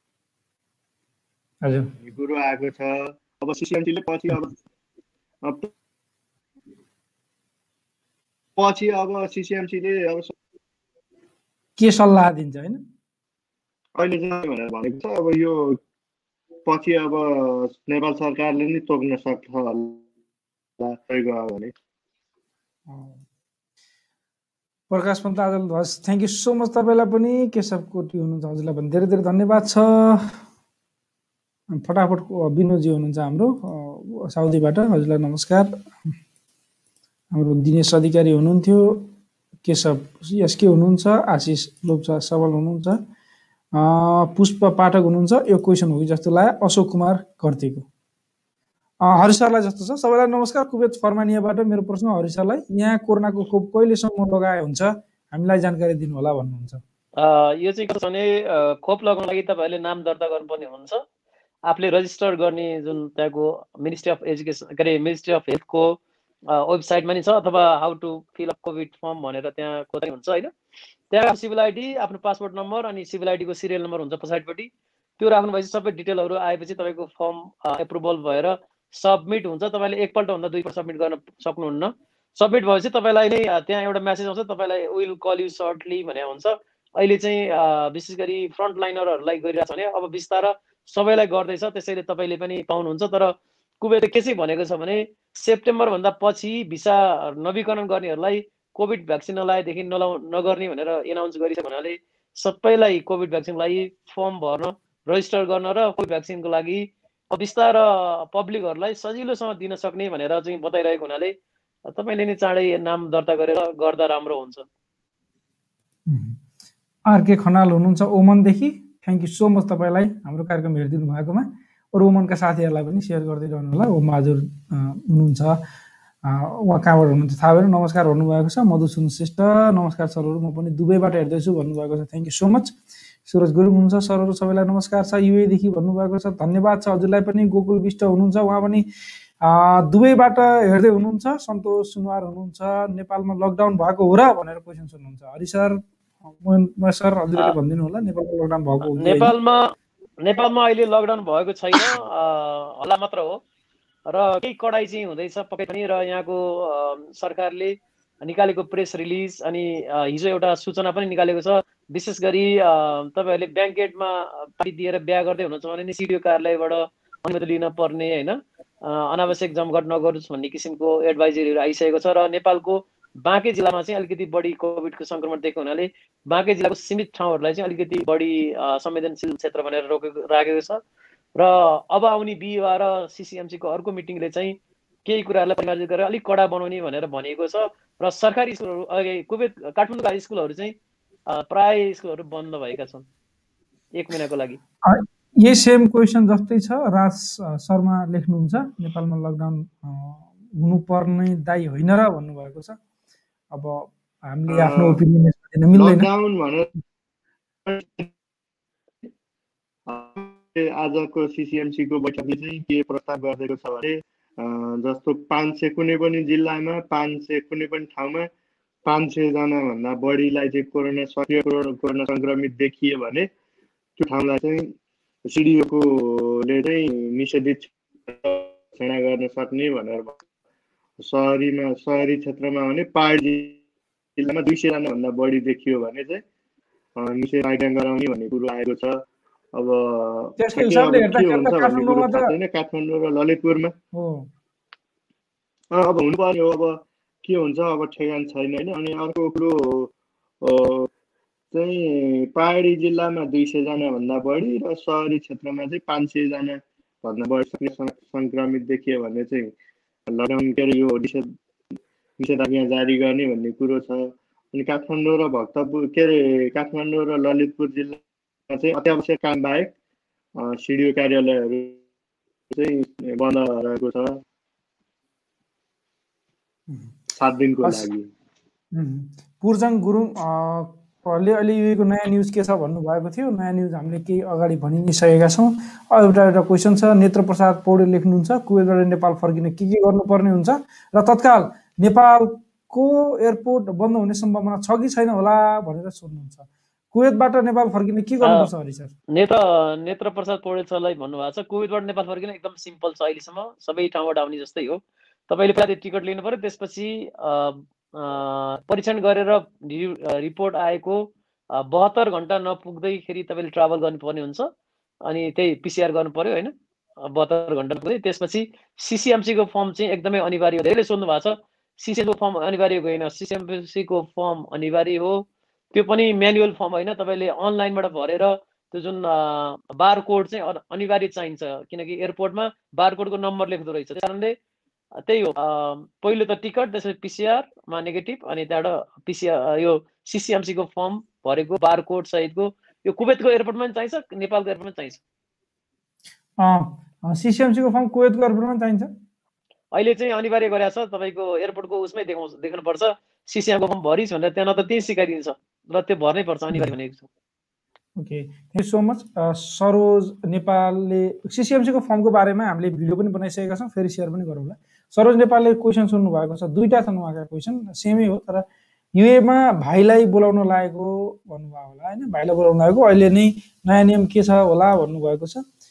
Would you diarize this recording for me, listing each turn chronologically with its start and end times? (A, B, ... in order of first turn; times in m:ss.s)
0:01.6-0:01.9 A
0:02.0-0:04.5 B
0:05.4-0:05.7 B
0:08.6-0:10.3 B
0:11.8-0:12.8 A
0:14.0-0:15.8 B
0:16.7-0:20.0 B
0:20.8-0:21.7 B
0:22.9-0:23.2 A
0:24.9-0:30.4 A
0:31.7-0:36.1 A
0:37.3-0:39.1 A
0:39.6-0:43.0 A
0:43.8-0:47.9 A
0:49.1-0:56.8 A
0:57.2-1:01.0 C
1:01.7-1:10.5 C
1:11.1-1:51.3 C
1:51.9-1:54.6 C
1:56.1-1:56.4 A
1:57.1-2:05.6 A
2:06.3-2:12.8 A
2:13.3-2:18.9 A
2:19.5-2:25.8 A
2:26.3-2:29.3 A
2:28.8-2:33.4 C
2:34.1-3:00.8 C
3:01.4-3:10.7 C
3:11.3-3:13.1 C
3:13.9-3:14.6 C
3:14.9-3:22.8 A
3:23.5-3:26.1 A
3:24.5-3:25.0 B
3:25.7-3:26.7 B
3:27.6-3:28.1 B
3:29.9-3:38.3 B
3:38.8-3:43.3 B
3:44.0-3:44.7 B
3:45.3-3:50.2 B
3:51.0-3:53.6 B
3:54.2-3:56.2 B
3:57.0-3:59.0 B
3:59.5-4:03.7 B
4:00.4-4:02.3 A
4:03.9-4:04.3 A
4:05.7-4:10.9 B
4:11.5-4:19.5 B
4:20.1-4:21.3 B
4:22.2-4:29.7 B
4:30.4-4:31.8 B
4:32.5-4:34.2 B
4:37.1-4:38.1 B
4:38.7-4:58.9 A
4:58.2-4:58.5 C
4:59.1-5:14.5 C
5:15.1-5:34.4 C
5:35.0-5:45.0 C
5:46.4-5:48.9 A
5:49.7-5:57.1 C
5:58.0-6:08.5 A
6:09.0-6:15.4 A